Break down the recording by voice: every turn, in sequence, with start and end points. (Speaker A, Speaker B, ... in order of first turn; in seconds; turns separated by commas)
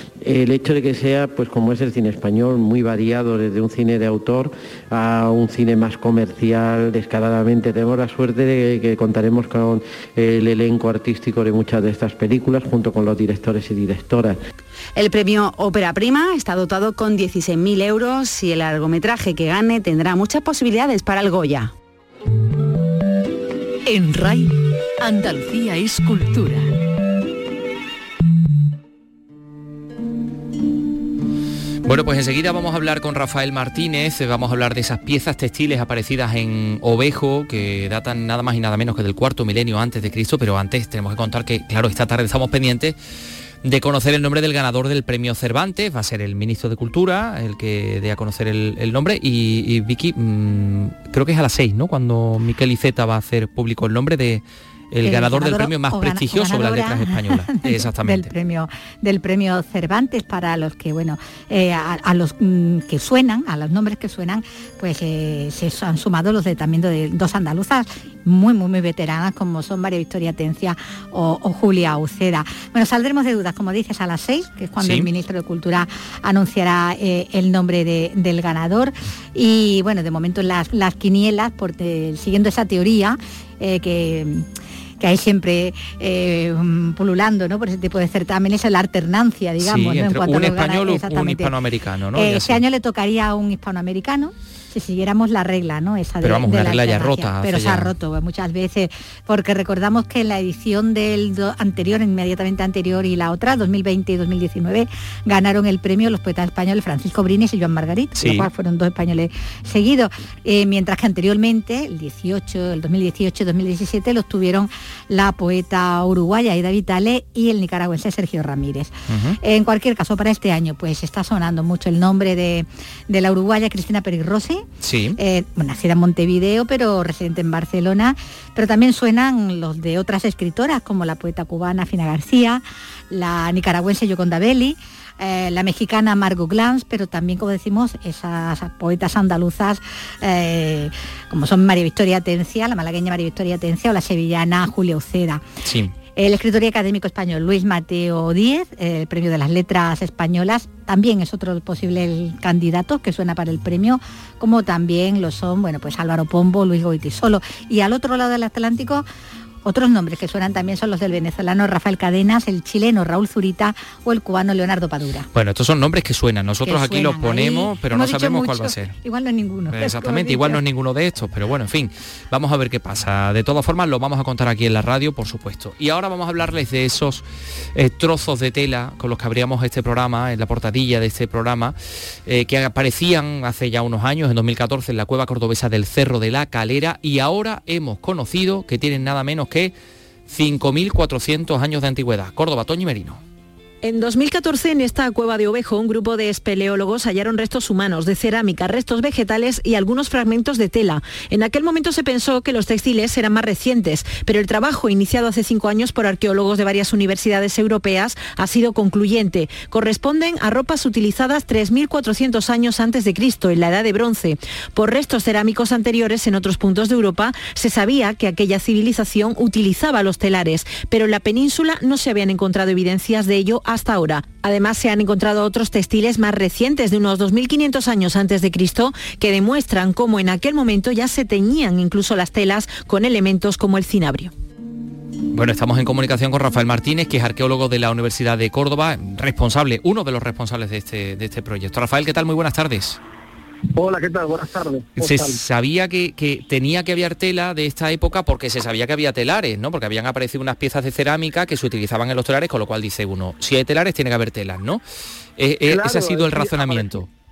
Speaker A: 0.2-14.4, Speaker B: 15.0-21.7, Speaker C: 23.9-26.7, Speaker D: 31.9-43.0, Speaker D: 43.6-58.3, Speaker E: 55.0-84.5, Speaker D: 74.8-75.1, Speaker E: 85.0-91.5, Speaker D: 89.6-92.6, Speaker E: 92.2-145.4, Speaker D: 96.2-97.9, Speaker D: 108.2-108.5, Speaker D: 119.1-119.4, Speaker D: 124.8-125.2, Speaker D: 145.6-145.9, Speaker E: 146.2-159.1, Speaker E: 159.6-165.3, Speaker D: 165.3-169.0, Speaker E: 166.7-170.6, Speaker D: 169.7-177.2, Speaker D: 177.8-189.7, Speaker D: 190.3-193.2, Speaker F: 193.8-234.3, Speaker D: 235.3-243.0, Speaker G: 243.7-245.4, Speaker D: 245.0-254.8, Speaker D: 255.4-257.1, Speaker G: 255.6-257.0